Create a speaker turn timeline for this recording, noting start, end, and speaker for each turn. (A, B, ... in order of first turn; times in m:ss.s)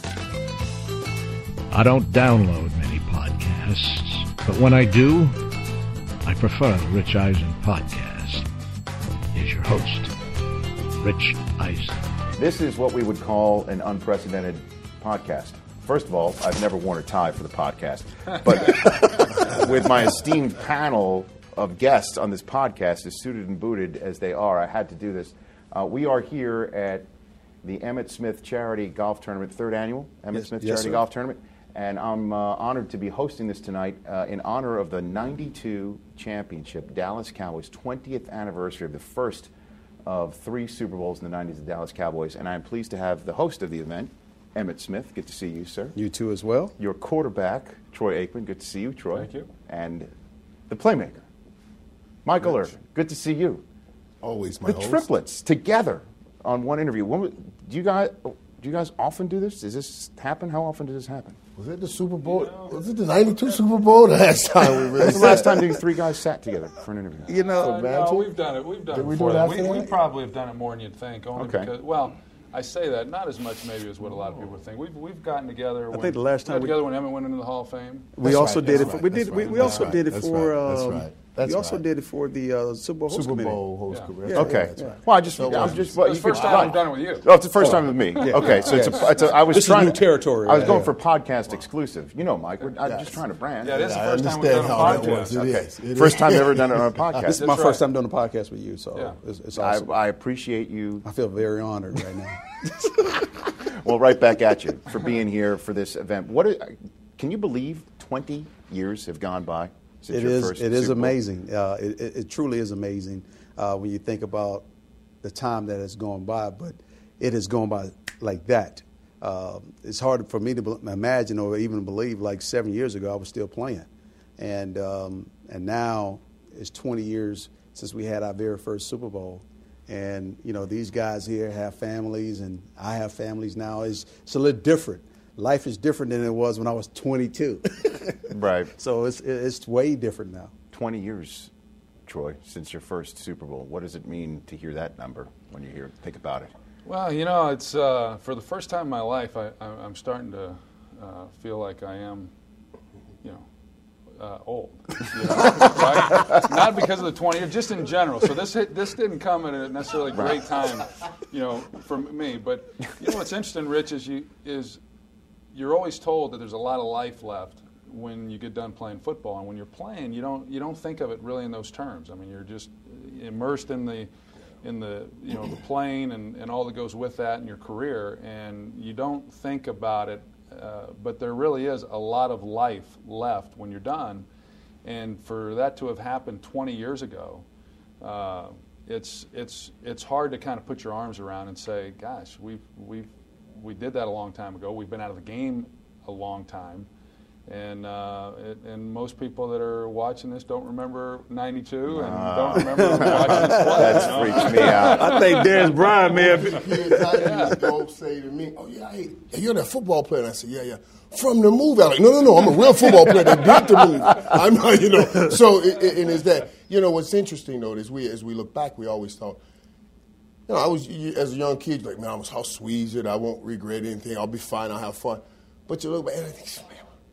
0:01.7-0:05.5 A
0:06.2-0:08.5 A
0:09.3-0:10.2 A
0:10.9-0:12.1 A
0:12.4-0:27.1 B
0:27.6-0:39.5 B
0:30.3-0:31.0 C
0:40.0-0:46.0 B
0:45.9-0:46.7 C
0:46.8-0:50.1 B
0:49.1-0:49.5 D
0:50.7-0:51.2 B
0:52.2-0:53.6 B
0:54.2-0:55.1 E
0:54.6-1:01.4 B
1:01.6-1:05.8 E
1:02.2-1:02.8 D
1:05.0-1:07.3 B
1:05.1-1:05.8 C
1:07.2-1:07.9 C
1:07.3-1:18.9 D
1:07.6-1:08.3 E
1:08.9-1:09.9 E
1:11.4-1:11.7 B
1:14.0-1:14.4 E
1:15.9-1:16.8 C
1:18.2-1:23.6 C
1:18.2-1:21.8 E
1:19.5-1:19.8 D
1:23.1-1:26.8 E
1:24.2-1:25.0 C
1:24.3-1:33.8 B
1:25.6-1:27.3 D
1:27.6-1:30.9 C
1:28.6-1:28.9 E
1:32.8-1:33.2 E
1:33.6-1:35.4 D
1:33.7-1:37.3 E
1:34.8-1:37.4 B
1:37.2-1:39.9 C
1:37.3-1:37.8 D
1:39.6-1:41.0 B
1:41.0-1:43.3 C
1:43.6-1:51.2 B
1:50.1-1:54.7 C
1:55.2-2:20.5 C
2:18.3-2:18.7 B
2:20.7-2:21.5 B
2:22.0-2:26.5 B
2:26.8-2:32.3 D
2:34.2-2:44.8 D
2:40.1-2:40.4 B
2:45.5-2:54.1 D
2:54.6-3:04.3 D
3:04.8-3:07.4 D
3:08.0-3:16.9 D
3:17.5-3:26.6 D
3:21.9-3:25.4 B
3:22.8-3:27.6 C
3:24.3-3:24.8 E
3:25.5-3:39.4 E
3:27.1-3:27.6 D
3:40.5-3:46.9 E